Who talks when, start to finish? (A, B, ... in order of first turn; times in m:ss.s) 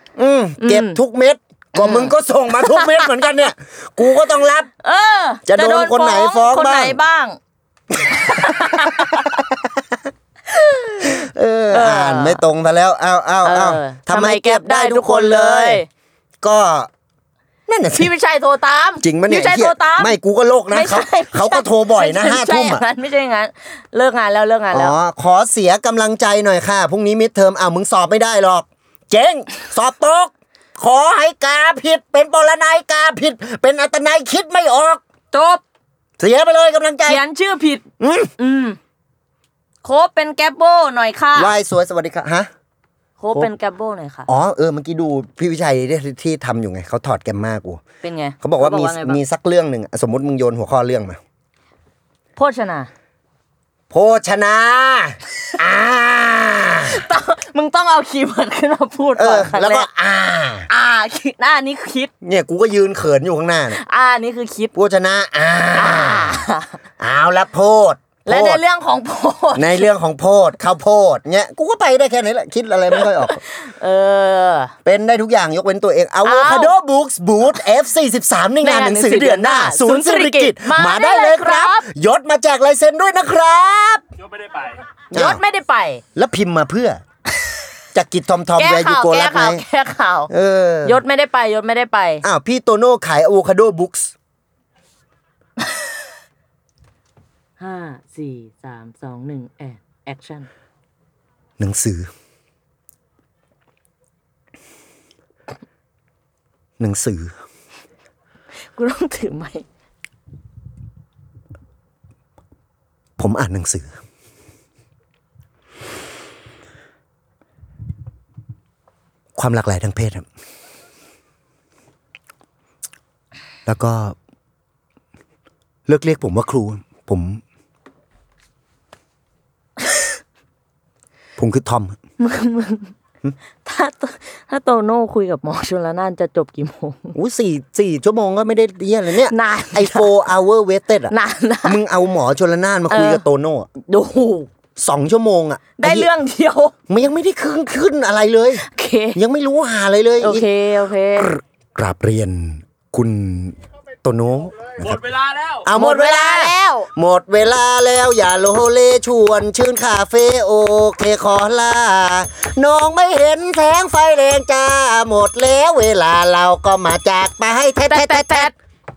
0:00.2-0:04.7 A
0:00.6-0:01.0 B
0:01.7-0:03.2 B
0:04.8-0:07.4 B
0:05.5-0:07.0 A
0:08.0-0:09.3 B
0:08.1-0:10.0 A
0:10.6-0:12.4 B
0:11.0-0:15.8 A
0:13.4-0:15.9 B
0:16.4-0:16.9 A
0:17.7-0:18.1 A
0:17.9-0:20.2 B
0:19.0-0:22.8 A
0:20.7-0:24.9 B
0:24.7-0:35.0 A
0:35.3-0:35.6 B
0:36.2-0:37.2 A
0:37.0-0:37.8 B
0:38.0-0:38.3 A
0:38.4-0:38.8 B
0:39.8-0:41.5 B
0:41.4-0:42.5 A
0:43.2-0:44.3 B
0:44.3-0:47.8 A
0:48.0-0:49.2 B
0:48.4-0:51.2 A
0:52.4-0:52.9 B
0:53.9-0:57.0 A
0:56.8-0:59.9 B
0:59.2-1:00.7 A
1:00.7-1:02.1 B
1:02.2-1:03.8 A
1:03.7-1:04.7 B
1:04.7-1:06.4 A
1:05.8-1:06.7 B
1:07.0-1:08.6 A
1:08.2-1:09.9 B
1:09.5-1:13.4 A
1:13.0-1:14.7 B
1:14.8-1:24.0 A
1:16.2-1:16.7 B
1:18.6-1:21.8 B
1:25.1-1:26.0 B
1:25.1-1:25.4 A
1:26.1-1:27.0 A
1:27.9-1:29.6 A
1:28.6-1:30.3 B
1:30.3-1:31.0 A
1:30.8-1:32.2 B
1:32.2-1:34.1 A
1:37.6-1:40.5 B
1:41.6-1:42.1 A
1:46.8-1:47.3 A
1:48.8-1:49.6 B
1:53.2-1:54.0 A
1:59.4-2:00.2 A
2:03.6-2:04.2 A
2:05.9-2:07.4 A
2:11.4-2:12.0 A
2:12.2-2:12.9 B
2:13.6-2:17.2 B
2:17.1-2:21.1 A
2:19.3-2:20.1 B
2:21.1-2:21.8 B
2:21.6-2:23.7 A
2:22.9-2:23.2 B
2:23.8-2:24.5 B
2:24.8-2:26.1 A
2:25.8-2:26.7 B
2:26.9-2:28.6 A
2:28.6-2:29.2 B
2:29.1-2:30.4 A
2:30.2-2:31.3 B
2:31.2-2:48.5 A
2:35.7-2:36.9 B
2:47.8-2:48.5 B